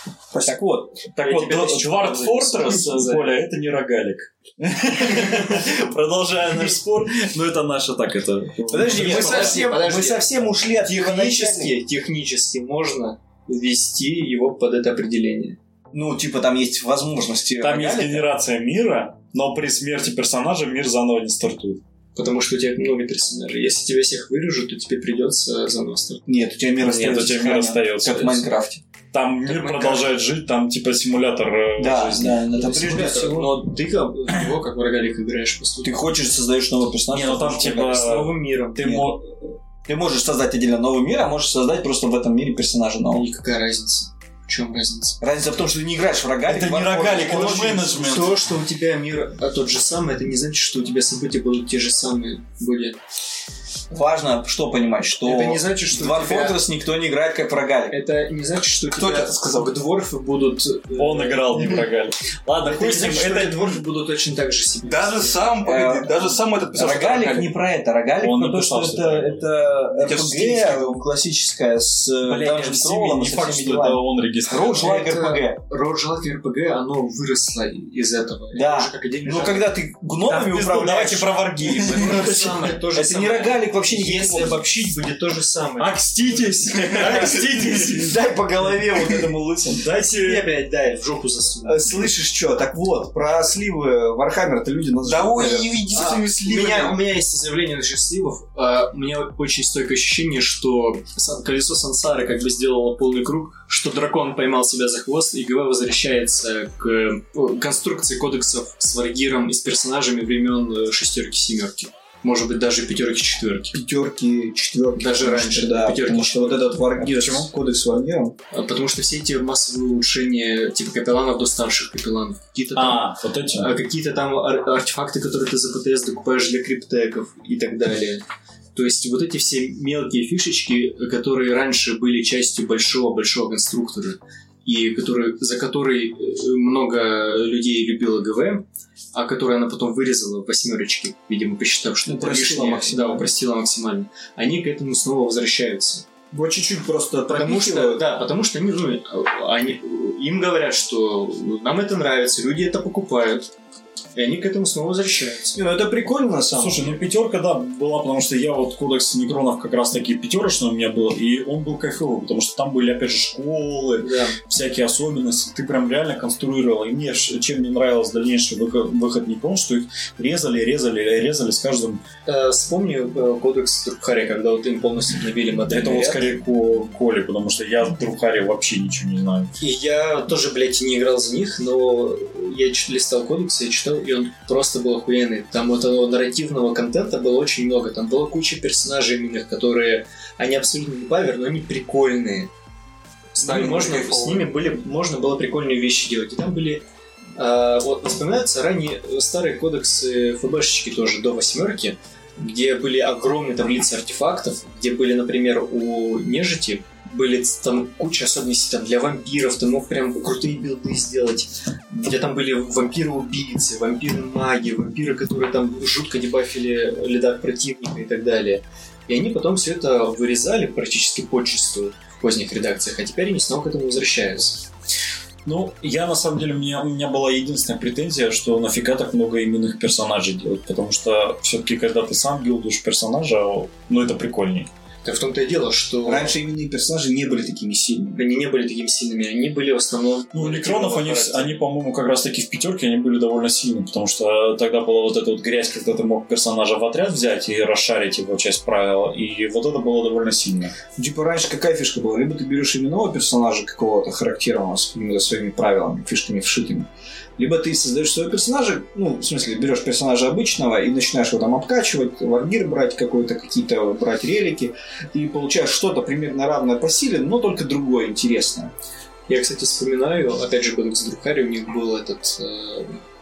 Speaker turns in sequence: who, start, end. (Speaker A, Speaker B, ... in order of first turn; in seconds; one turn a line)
Speaker A: 0.3-1.1
Speaker B: 1.1-9.6
Speaker C: 1.2-3.3
Speaker A: 8.7-11.8
Speaker C: 8.8-15.6
Speaker A: 15.9-18.3
Speaker B: 17.6-21.8
Speaker C: 22.1-26.2
Speaker A: 26.2-28.8
Speaker B: 26.8-28.4
Speaker B: 29.1-32.4
Speaker C: 29.4-30.1
Speaker A: 31.8-33.6
Speaker C: 32.5-36.0
Speaker A: 35.8-38.1
Speaker B: 37.1-39.3
Speaker C: 37.9-38.8
Speaker A: 38.8-39.1
Speaker A: 39.9-43.2
Speaker C: 43.1-45.2
Speaker A: 45.2-48.0
Speaker B: 46.5-48.4
Speaker C: 47.2-53.0
Speaker A: 53.9-58.0
Speaker C: 55.2-56.6
Speaker C: 57.9-61.8
Speaker D: 58.9-59.7
Speaker B: 60.9-63.8
Speaker C: 62.6-65.5
Speaker D: 64.8-67.5
Speaker A: 65.6-66.1
Speaker A: 66.7-75.6
Speaker B: 68.2-69.5
Speaker D: 69.9-71.0
Speaker B: 72.2-75.1
Speaker C: 74.7-79.8
Speaker A: 78.5-81.4
Speaker B: 80.2-82.8
Speaker C: 81.7-87.5
Speaker A: 82.9-84.9
Speaker B: 85.8-88.2
Speaker A: 87.0-89.8
Speaker B: 89.8-90.5
Speaker C: 89.9-91.8
Speaker A: 91.6-95.9
Speaker D: 95.0-97.0
Speaker C: 95.4-113.7
Speaker A: 113.7-118.3
Speaker C: 115.0-116.8
Speaker B: 117.0-117.5
Speaker C: 118.5-128.2
Speaker B: 122.7-123.7
Speaker C: 128.7-146.1
Speaker A: 142.0-143.3
Speaker A: 146.3-148.0
Speaker C: 147.3-153.5
Speaker C: 154.1-155.6
Speaker A: 155.5-157.0
Speaker B: 156.5-172.0
Speaker C: 164.0-164.4
Speaker C: 172.2-176.3
Speaker B: 175.7-179.5
Speaker C: 179.6-192.5
Speaker C: 193.3-196.8
Speaker D: 193.4-194.5
Speaker C: 197.3-224.7
Speaker B: 225.4-234.7
Speaker C: 235.0-236.3
Speaker A: 236.1-238.2
Speaker C: 238.1-241.6
Speaker B: 240.3-250.8
Speaker A: 251.0-268.7
Speaker C: 269.3-273.0